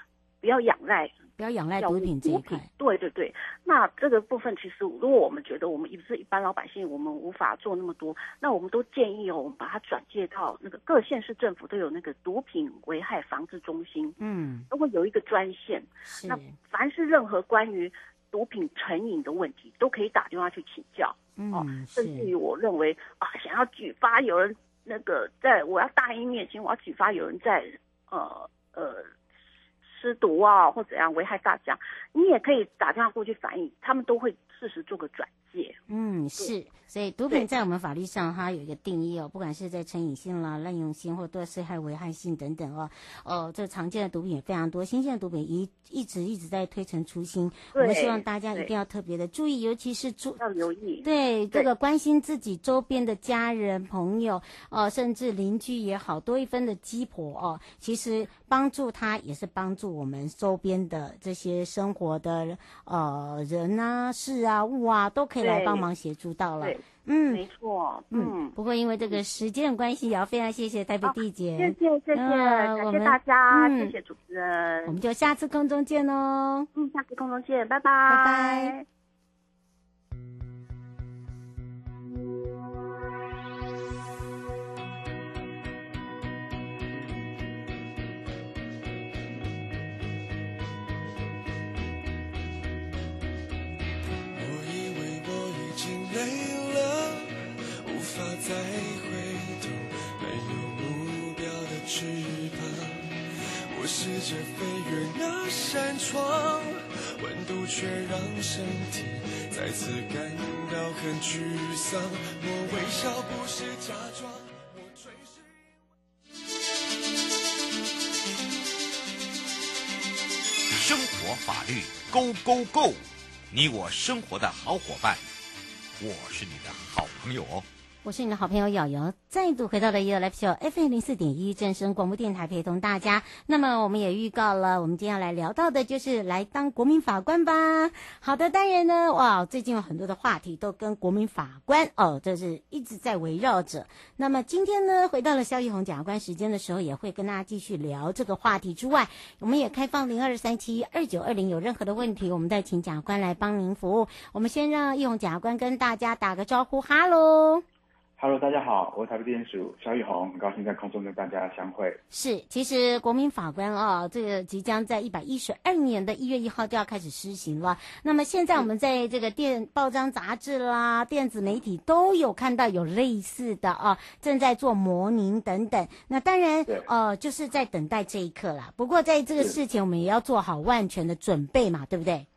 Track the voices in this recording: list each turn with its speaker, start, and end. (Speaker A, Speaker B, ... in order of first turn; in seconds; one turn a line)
Speaker A: 0.4-1.2
Speaker B: 1.4-2.7
Speaker A: 1.8-14.2
Speaker B: 14.2-14.7
Speaker A: 14.7-29.1
Speaker B: 16.1-16.5
Speaker B: 21.4-22.3
Speaker A: 29.8-35.8
Speaker B: 35.9-50.4
Speaker A: 47.7-48.7
Speaker A: 50.4-51.7
Speaker B: 51.0-67.4
Speaker A: 65.4-65.8
Speaker A: 66.6-68.5
Speaker B: 68.1-73.9
Speaker A: 71.0-75.0
Speaker B: 74.8-76.7
Speaker A: 76.7-78.8
Speaker B: 78.1-78.7
Speaker C: 94.3-115.6
Speaker D: 120.7-125.2
Speaker D: 126.0-127.7
Speaker B: 128.0-157.6
Speaker E: 158.2-162.0
Speaker B: 162.1-182.3